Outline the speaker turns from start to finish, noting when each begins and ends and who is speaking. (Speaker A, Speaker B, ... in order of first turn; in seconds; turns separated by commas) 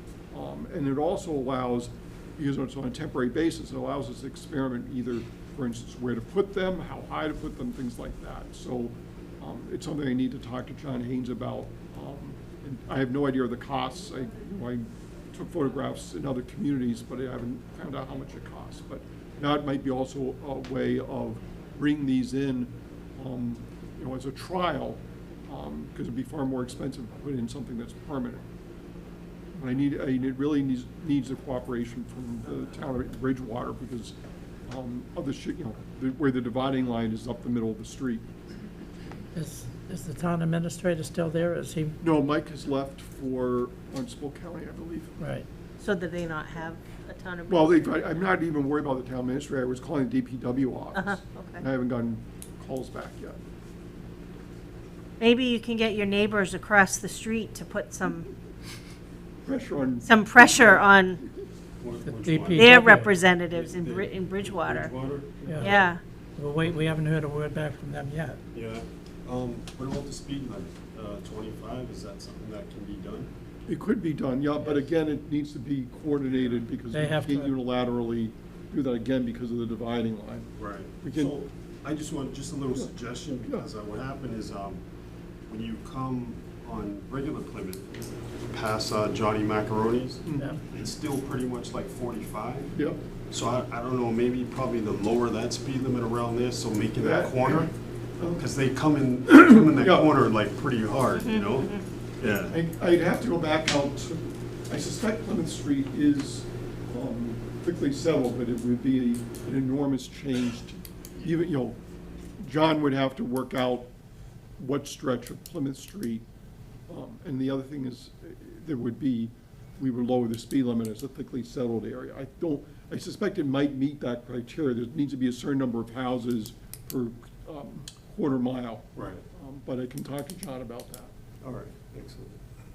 Speaker A: 0.3-28.4, Speaker A: 29.6-38.2, Speaker B: 39.3-42.0, Speaker A: 42.0-45.1, Speaker B: 45.2-45.5, Speaker C: 45.8-48.1, Speaker A: 47.5-53.4, Speaker C: 51.0-51.6, Speaker C: 55.2-58.3, Speaker A: 59.5-60.9, Speaker C: 60.0-61.2, Speaker D: 61.8-62.8, Speaker B: 62.0-63.1, Speaker C: 62.5-65.0, Speaker D: 63.5-65.8, Speaker A: 65.4-65.8, Speaker B: 65.4-68.4, Speaker C: 65.6-66.0, Speaker D: 68.5-73.3, Speaker A: 73.7-80.5, Speaker B: 76.9-77.5, Speaker D: 80.6-84.8, Speaker A: 81.0-81.4, Speaker D: 85.5-97.7, Speaker A: 90.3-90.6, Speaker B: 90.3-90.6, Speaker A: 92.8-93.0, Speaker A: 97.0-98.5, Speaker D: 98.4-102.6, Speaker A: 99.3-100.1, Speaker A: 102.5-111.8, Speaker A: 112.4-113.9, Speaker A: 114.6-116.2, Speaker A: 116.9-131.1, Speaker D: 128.9-129.2, Speaker D: 131.4-132.4